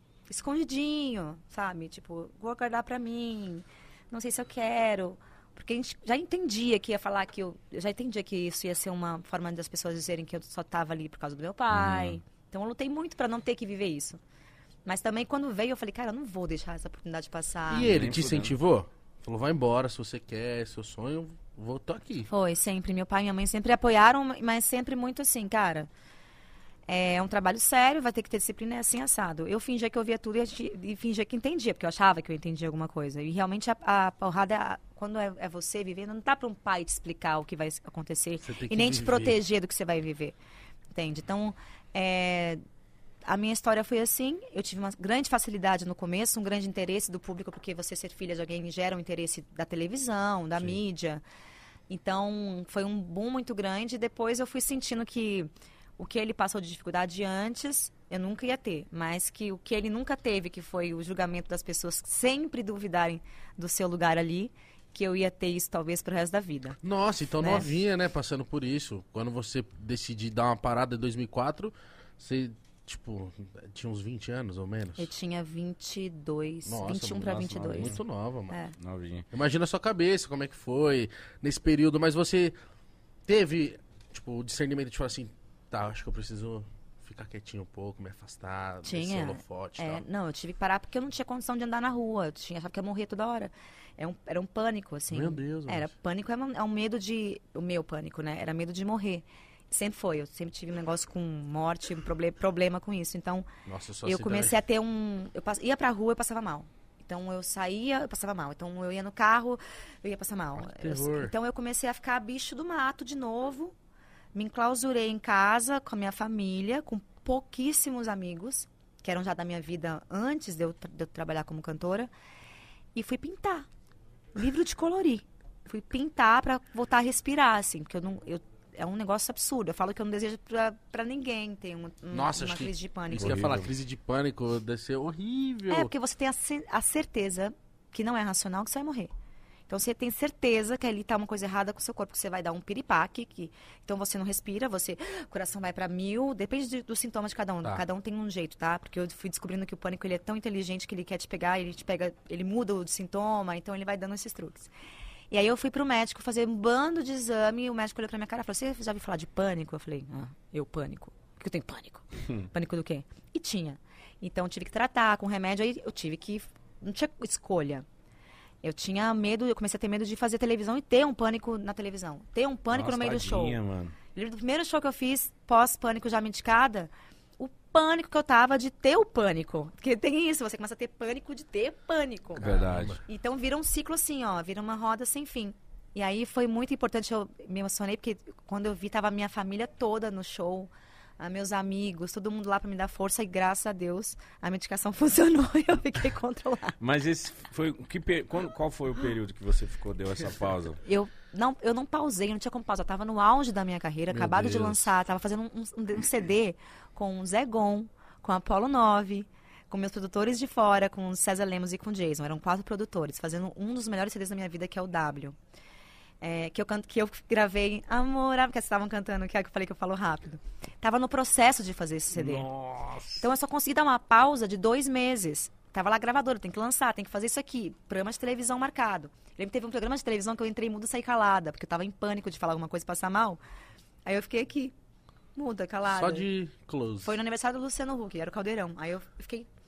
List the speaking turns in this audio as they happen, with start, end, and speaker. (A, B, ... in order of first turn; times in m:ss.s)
0:00.3-0:14.2 A
0:11.7-0:12.2 B
0:14.9-0:18.0 A
0:17.7-0:22.3 C
0:17.8-0:18.5 B
0:22.3-0:25.9 A
0:26.9-0:40.4 A
0:38.4-0:39.4 C
0:40.9-0:42.6 A
0:43.3-0:51.2 A
0:51.9-1:06.8 A
1:06.8-1:15.1 C
1:07.4-1:07.7 A
1:15.0-1:18.0 A
1:16.7-1:18.6 C
1:18.5-1:18.8 A
1:18.8-1:19.2 B
1:19.3-1:22.5 C
1:23.3-1:30.0 C
1:28.8-1:43.5 A
1:35.1-1:35.9 C
1:43.7-1:44.6 C
1:44.0-1:53.7 A
1:50.6-1:51.3 C
1:54.3-2:02.1 A
2:03.0-2:03.7 A
2:04.4-2:13.5 A
2:12.1-2:15.9 C
2:13.2-2:13.7 B
2:15.7-2:19.1 A
2:19.7-2:34.7 A
2:35.3-2:47.8 A
2:48.6-2:53.6 A
2:52.7-2:54.0 B
2:54.1-3:16.8 A
3:02.4-3:03.0 B
3:02.4-3:03.0 C
3:16.8-3:20.8 B
3:20.8-3:35.4 A
3:24.1-3:24.9 C
3:36.2-3:42.5 A
3:42.2-3:43.2 B
3:43.2-3:53.4 A
3:54.1-3:54.7 A
3:55.4-3:56.3 A
3:55.9-3:57.2 C
3:57.0-3:59.5 A